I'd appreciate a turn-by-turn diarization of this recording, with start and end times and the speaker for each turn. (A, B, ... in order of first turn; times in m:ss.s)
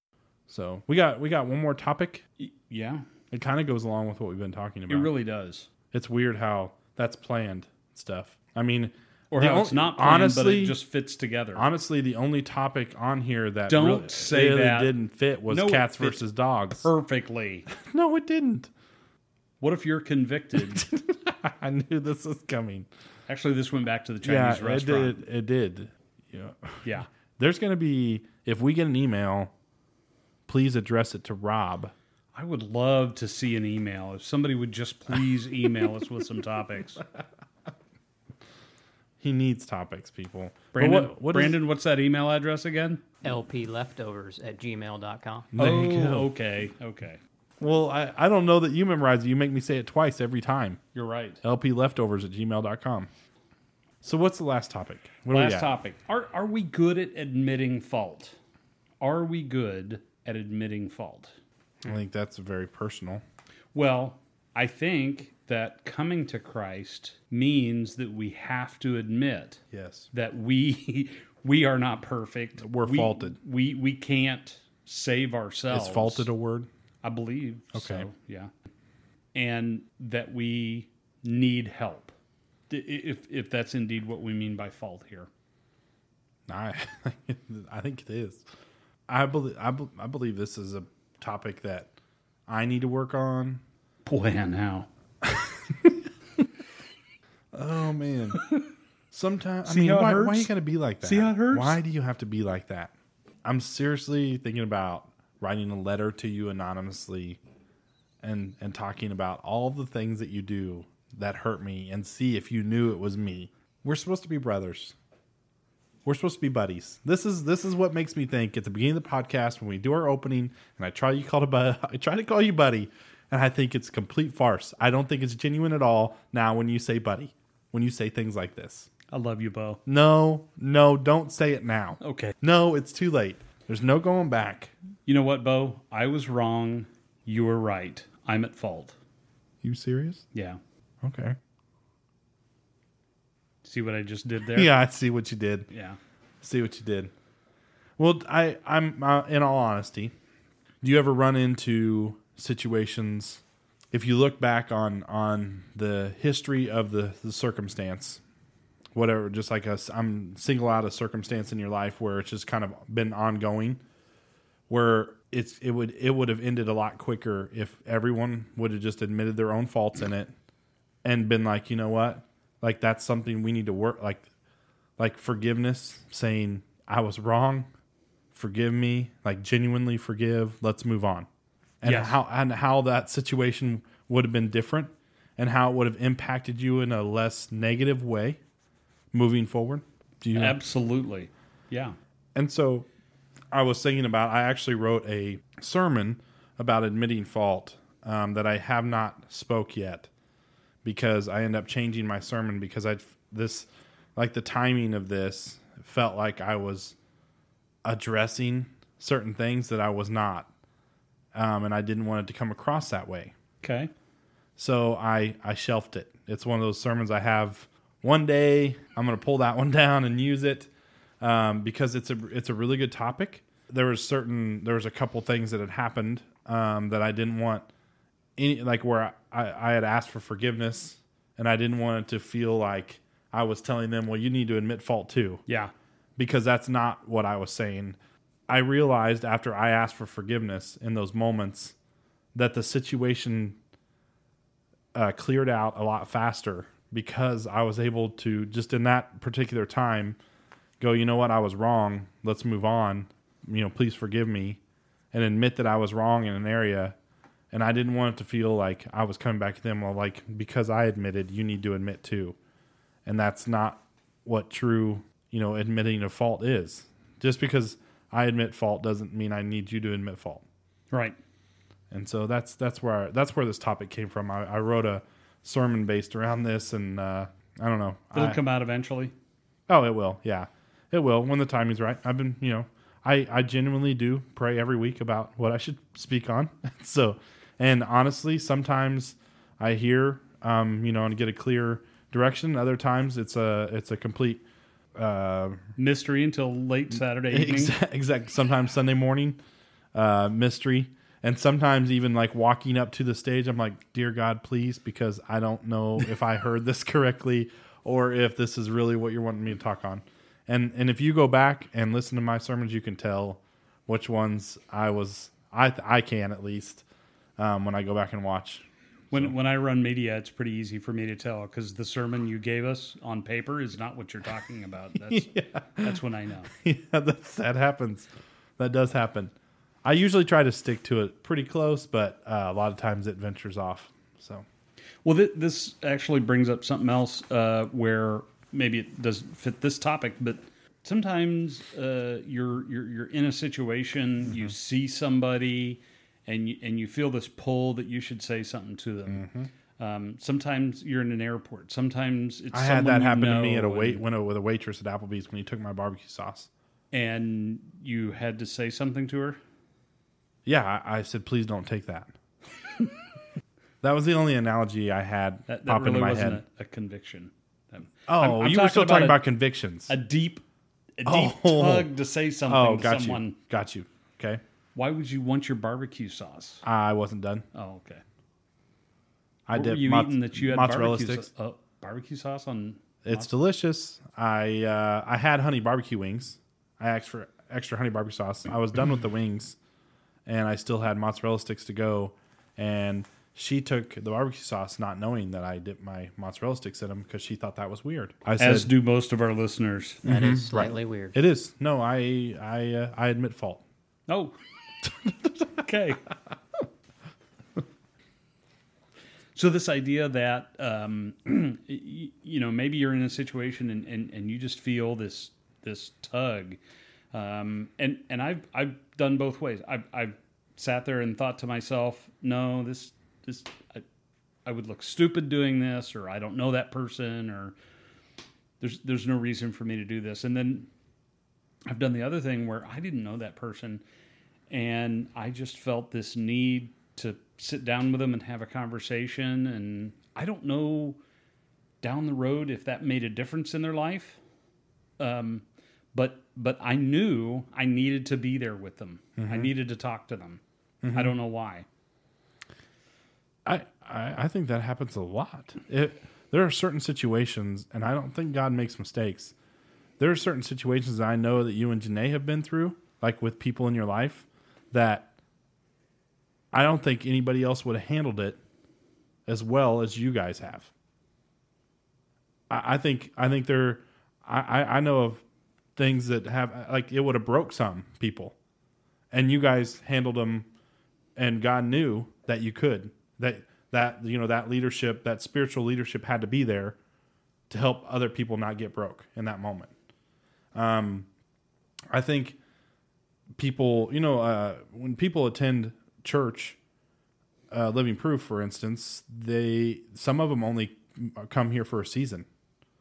0:00.5-0:02.2 A
0:02.4-0:03.0 B
0:03.3-0:05.1 A
0:04.9-0:05.7 B
0:05.9-0:10.8 A
0:09.3-0:11.6 B
0:11.5-0:16.9 A
0:13.7-0:14.9 B
0:15.5-0:16.2 B
0:16.8-0:17.7 B
0:17.7-0:18.7 A
0:19.6-0:20.8 B
0:20.6-0:22.9 A
0:23.3-0:25.2 B
0:24.2-0:29.5 A
0:30.5-0:31.9 A
0:32.3-0:37.0 B
0:39.2-0:41.6 A
0:40.7-0:43.0 B
0:43.2-0:45.5 C
0:45.5-0:46.3 A
0:45.6-0:47.2 B
0:47.6-0:50.8 A
0:50.9-0:51.4 B
0:51.4-0:53.1 A
0:54.0-0:55.7 A
0:55.3-0:58.4 B
0:59.0-1:01.3 B
1:01.8-1:03.2 A
1:03.7-1:09.6 B
1:09.7-1:10.1 A
1:10.1-1:16.3 B
1:12.6-1:13.4 A
1:15.7-1:16.7 A
1:17.0-1:18.5 B
1:17.7-1:18.1 A
1:19.3-1:22.1 B
1:22.7-1:25.3 B
1:26.5-1:28.4 A
1:29.1-1:31.9 A
1:32.5-1:33.6 A
1:34.0-1:34.9 B
1:35.2-1:35.9 A
1:37.5-1:38.4 A
1:39.1-1:42.9 A
1:39.6-1:41.8 B
1:43.4-1:47.4 A
1:48.2-1:54.9 A
1:56.0-2:08.9 A
2:09.1-2:09.8 B
2:09.8-2:14.7 A
2:12.0-2:12.3 B
2:15.0-2:19.0 B
2:19.6-2:20.2 A
2:20.3-2:20.6 B
2:21.0-2:21.4 A
2:23.6-2:24.7 B
2:24.5-2:25.7 A
2:25.7-2:26.0 B
2:26.4-2:27.1 A
2:28.0-2:30.1 A
2:30.8-2:38.2 A
2:38.9-2:43.8 A
2:44.7-2:50.3 A
2:51.0-2:54.3 A
2:55.0-2:57.7 A
2:58.3-3:01.3 A
3:01.8-3:08.4 A
3:01.8-3:02.2 B
3:09.1-3:10.6 A
3:10.3-3:12.0 B
3:12.3-3:12.9 A
3:13.5-3:20.1 A
3:20.8-3:26.9 A
3:27.8-3:30.5 A
3:31.3-3:33.3 A
3:33.6-3:33.9 B
3:34.6-3:40.7 A
3:41.2-3:47.7 A
3:48.4-3:55.4 A
3:56.2-3:58.0 A
3:58.5-4:01.7 A
4:02.3-4:03.6 A
4:04.9-4:10.2 A
4:10.8-4:14.6 A
4:15.1-4:17.0 A
4:17.5-4:22.4 A
4:23.0-4:30.4 A
4:30.9-4:31.2 B
4:31.9-4:38.4 A
4:38.1-4:39.1 B
4:39.7-4:54.4 A
4:54.9-4:55.6 A
4:55.8-4:57.7 B
4:57.3-4:59.4 A
4:59.9-5:16.8 A
5:17.4-5:19.3 A
5:19.1-5:26.5 B
5:25.0-5:26.0 A
5:26.5-5:29.3 A
5:29.8-5:34.4 A
5:35.0-5:49.2 B
5:49.1-5:49.5 A
5:49.8-5:54.0 B
5:52.5-5:56.5 A
5:56.9-5:59.4 B
6:00.4-6:02.1 A
6:03.8-6:06.4 A
6:05.5-6:09.2 B
6:08.1-6:09.9 A
6:09.9-6:10.4 B
6:11.0-6:13.4 B
6:11.0-6:11.9 A
6:12.5-6:14.4 A
6:14.7-6:16.6 B
6:16.6-6:17.4 A
6:17.5-6:18.0 B
6:19.5-6:21.3 A
6:19.5-6:23.3 B
6:23.0-6:29.6 A
6:30.2-6:38.7 A
6:38.4-6:40.0 B
6:40.0-6:43.6 A
6:40.0-6:41.2 C
6:44.1-6:44.4 B
6:45.0-6:45.3 A
6:45.6-6:46.0 B
6:49.3-6:56.6 B
6:57.1-7:03.8 B
7:04.4-7:07.5 B
7:08.6-7:10.7 B
7:11.7-7:13.8 B
7:14.5-7:21.0 B
7:21.8-7:24.2 B
7:25.0-7:30.4 B
7:29.2-7:29.5 A
7:30.8-7:31.1 A
7:30.9-7:31.6 B
7:33.4-7:39.3 A
7:40.0-7:45.1 A
7:46.5-7:48.4 A
7:49.2-7:50.7 A
7:52.5-7:55.2 A
7:55.8-7:58.3 A
7:59.1-8:00.5 A
8:01.2-8:06.8 A
8:07.5-8:09.7 A
8:10.5-8:11.1 A
8:11.9-8:12.4 A
8:13.4-8:16.6 A
8:17.5-8:22.2 A